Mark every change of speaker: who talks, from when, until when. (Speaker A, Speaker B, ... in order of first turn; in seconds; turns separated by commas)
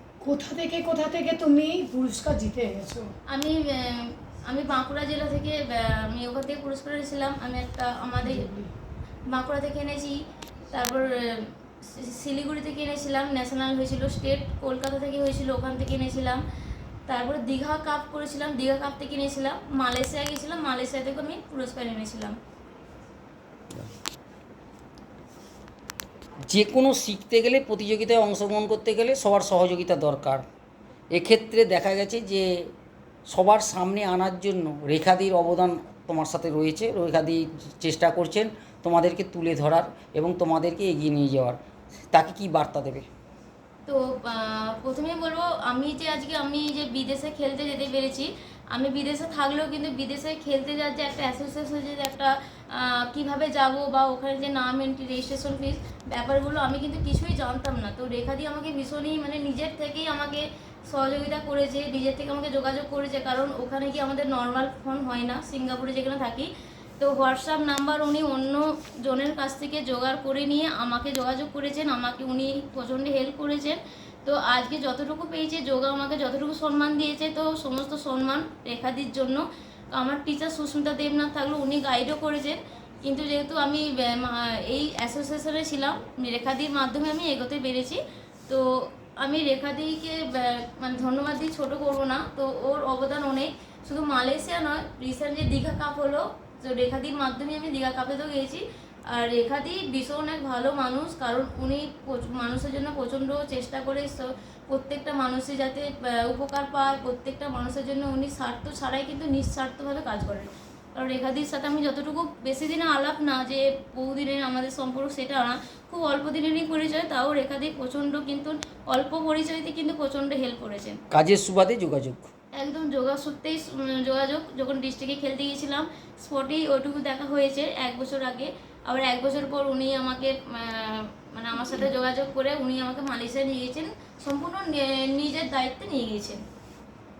Speaker A: 0.2-3.1, Speaker B: 3.3-8.5, Speaker A: 8.2-8.7, Speaker B: 9.3-10.2, Speaker B: 10.7-16.4, Speaker B: 17.1-22.4, Speaker C: 26.5-30.4, Speaker C: 31.1-32.7, Speaker C: 33.3-41.6, Speaker C: 42.1-43.0, Speaker B: 43.9-121.0, Speaker C: 121.1-122.3, Speaker B: 122.5-136.4